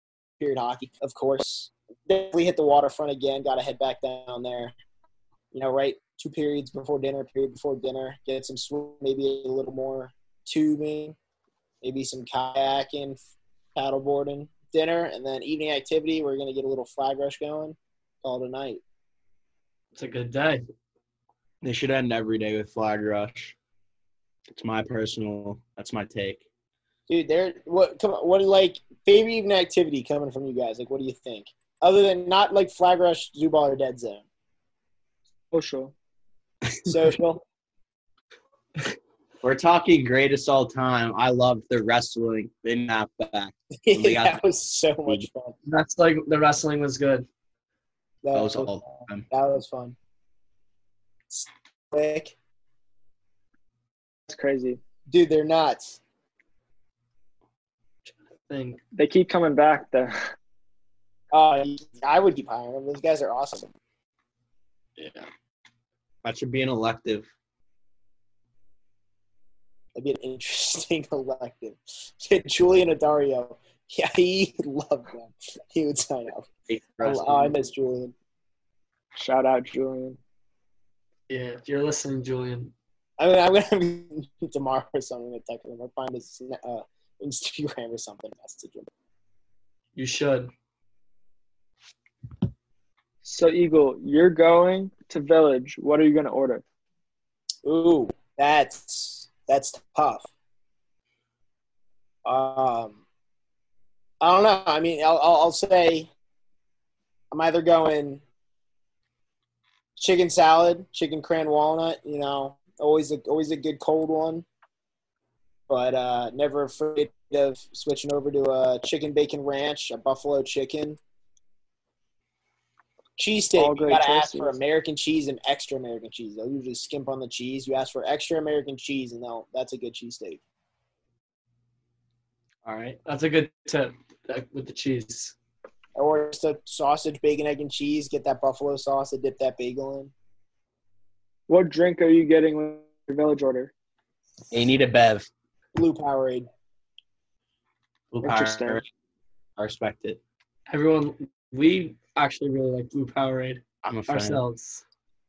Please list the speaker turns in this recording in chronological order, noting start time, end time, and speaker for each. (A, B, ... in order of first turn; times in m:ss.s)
0:00.4-0:04.7 A
0:05.5-0:11.2 A
0:11.8-0:13.2 A
0:13.7-0:18.8 A
0:19.9-0:20.6 B
0:21.6-0:23.5 C
0:24.5-0:26.4 C
0:27.1-0:34.2 A
0:35.5-0:35.9 D
0:36.8-0:37.4 A
0:39.4-0:44.4 C
0:43.8-0:45.6 A
0:45.7-0:47.2 B
0:48.2-0:50.0 A
0:48.3-0:49.3 C
0:51.3-0:52.3 A
0:54.3-0:54.8 D
0:55.1-0:56.0 A
0:58.1-0:58.8 B
0:58.9-1:00.2 D
1:01.3-1:03.7 A
1:05.0-1:05.3 B
1:06.2-1:07.3 C
1:09.9-1:16.5 A
1:16.7-1:17.6 C
1:17.0-1:18.1 A
1:19.2-1:20.2 D
1:21.3-1:22.7 B
1:23.2-1:28.9 A
1:30.0-1:30.5 B
1:33.2-1:36.6 D
1:37.6-1:40.3 A
1:42.2-1:43.0 A
1:44.2-1:46.1 A
1:47.3-1:48.2 A
1:50.0-1:54.4 A
1:55.7-2:01.0 A
2:03.2-2:10.4 A
2:03.5-2:04.6 D
2:12.6-2:13.0 C
2:13.0-2:15.3 B
2:16.0-2:20.1 A
2:21.5-2:23.7 D
2:24.5-2:25.3 C
2:25.7-2:26.5 A
2:28.1-2:28.9 C
2:28.2-2:28.8 D
2:29.6-2:30.2 C
2:30.7-2:34.8 B
2:33.8-2:34.4 C